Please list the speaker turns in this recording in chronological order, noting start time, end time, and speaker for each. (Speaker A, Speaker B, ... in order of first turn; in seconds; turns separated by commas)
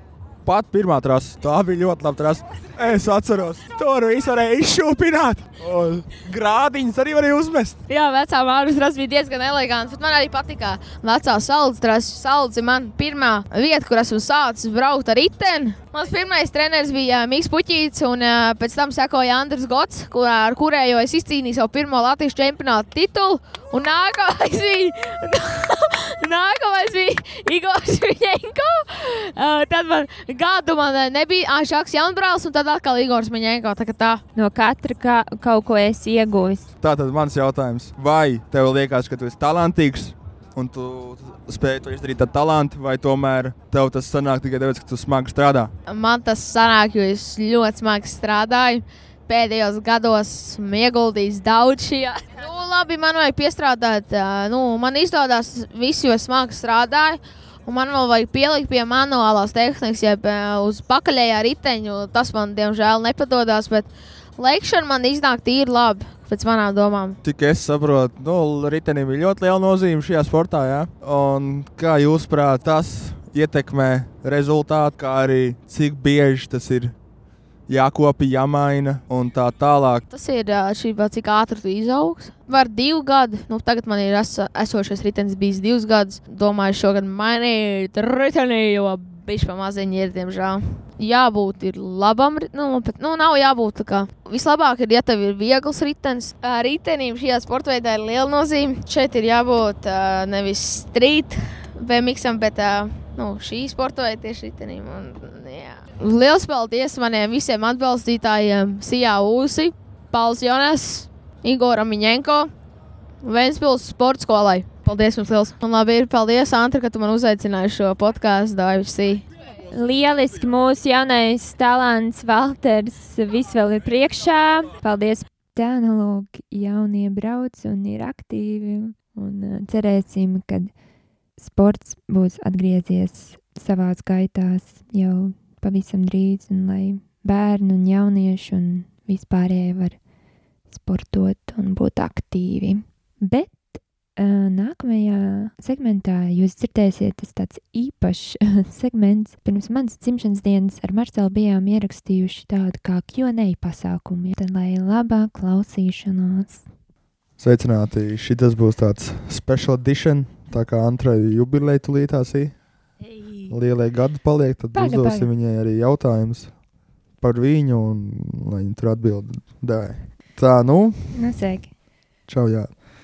Speaker A: 0.5-7.8, Speaker B: 7.9-34.2, Speaker C: 34.4-36.7, Speaker A: 36.8-45.7, Speaker B: 45.9-67.2, Speaker A: 67.2-77.0, Speaker A: 77.7-80.0, Speaker B: 80.1-112.5, Speaker B: 113.2-119.3, Speaker C: 119.7-130.7, Speaker C: 131.4-140.0, Speaker C: 140.7-156.7, Speaker A: 157.4-162.5, Speaker A: 163.5-166.5, Speaker C: 164.8-165.3, Speaker A: 167.2-171.1, Speaker C: 171.1-171.7, Speaker A: 172.3-172.7